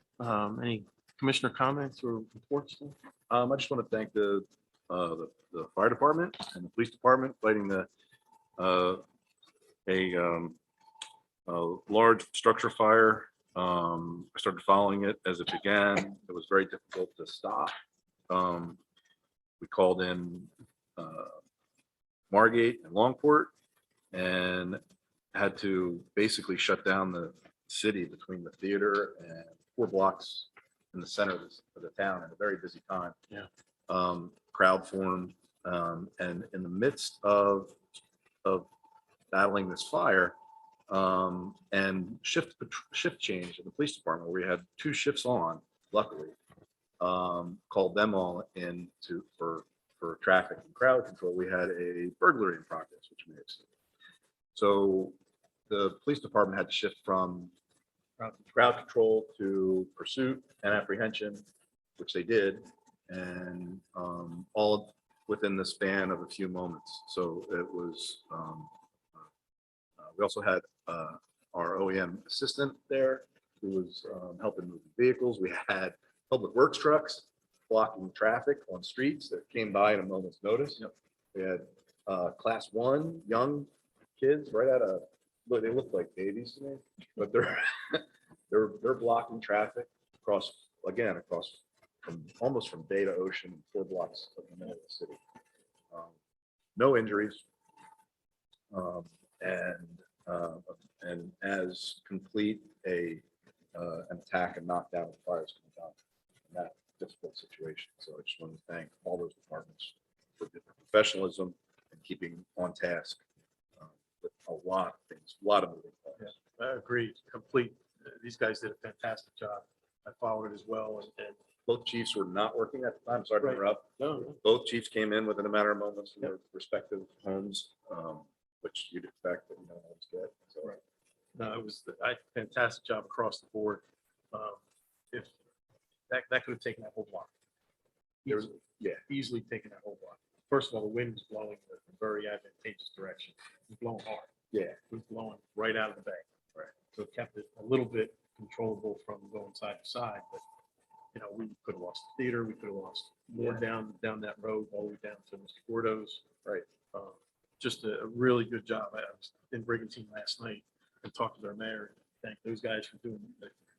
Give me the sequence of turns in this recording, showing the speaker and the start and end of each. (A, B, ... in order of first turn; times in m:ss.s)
0:00.2-0:03.0 A
0:03.3-0:07.9 B
0:08.6-0:09.0 B
0:09.8-0:10.6 B
0:11.5-0:17.7 B
0:18.3-0:18.8 B
0:19.6-0:21.4 B
0:22.3-0:23.5 B
0:24.1-0:24.8 B
0:25.3-0:33.2 B
0:33.9-0:37.8 B
0:38.4-0:38.7 B
0:39.3-0:40.4 B
0:40.9-0:46.3 B
0:47.0-0:53.6 B
0:54.5-0:55.2 B
0:55.7-0:57.5 B
0:58.2-0:58.6 A
0:58.5-1:01.4 B
1:02.0-1:08.7 B
1:10.0-1:35.2 B
1:36.8-1:37.4 B
1:38.7-1:43.2 B
1:43.7-1:45.9 B
1:46.5-1:53.2 B
1:53.8-1:56.3 B
1:56.2-2:01.4 A
2:01.7-2:10.8 B
2:03.4-2:04.4 A
2:11.3-2:14.6 A
2:16.1-2:17.3 A
2:18.2-2:24.3 A
2:18.3-2:19.0 B
2:24.5-2:24.8 B
2:24.9-2:26.2 A
2:26.9-2:30.4 A
2:31.1-2:36.2 A
2:33.3-2:33.6 B
2:36.9-2:43.5 A